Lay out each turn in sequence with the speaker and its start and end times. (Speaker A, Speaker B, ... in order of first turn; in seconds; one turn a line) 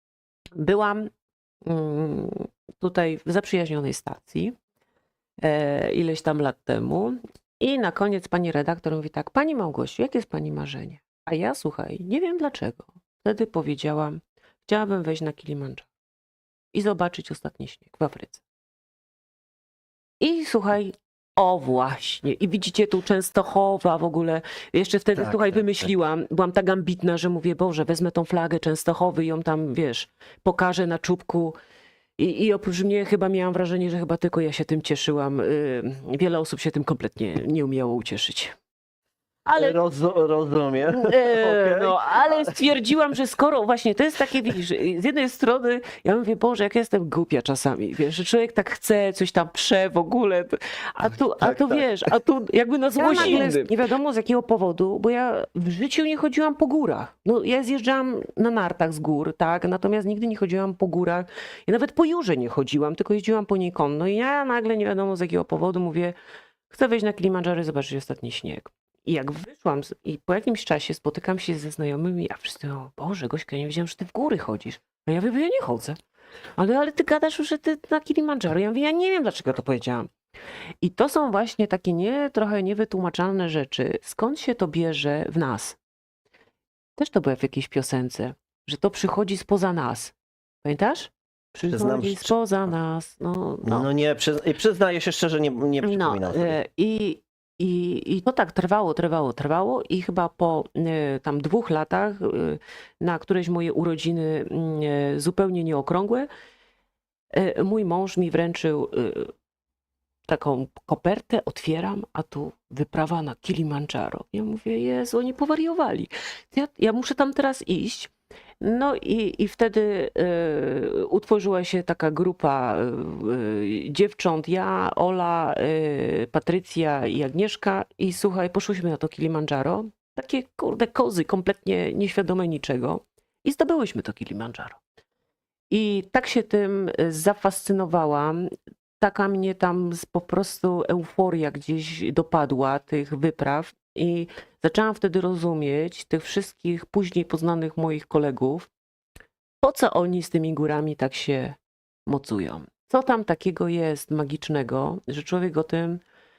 Speaker A: 0.5-1.1
Speaker A: 1.6-4.5
Speaker A: 5.4-15.9
Speaker A: 16.7-18.4
Speaker A: 20.2-31.6
Speaker B: 25.1-25.9
Speaker A: 32.2-38.5
Speaker A: 39.5-39.8
Speaker B: 39.5-42.6
Speaker A: 40.9-66.2
Speaker B: 51.4-51.9
Speaker B: 53.0-53.7
Speaker A: 66.7-76.0
Speaker A: 76.5-80.1
Speaker A: 80.8-85.8
Speaker A: 87.0-93.9
Speaker B: 91.7-92.7
Speaker B: 93.6-96.6
Speaker A: 95.8-106.3
Speaker A: 107.3-109.3
Speaker A: 110.3-134.8
Speaker A: 135.7-138.5
Speaker A: 139.0-148.7
Speaker A: 149.6-156.0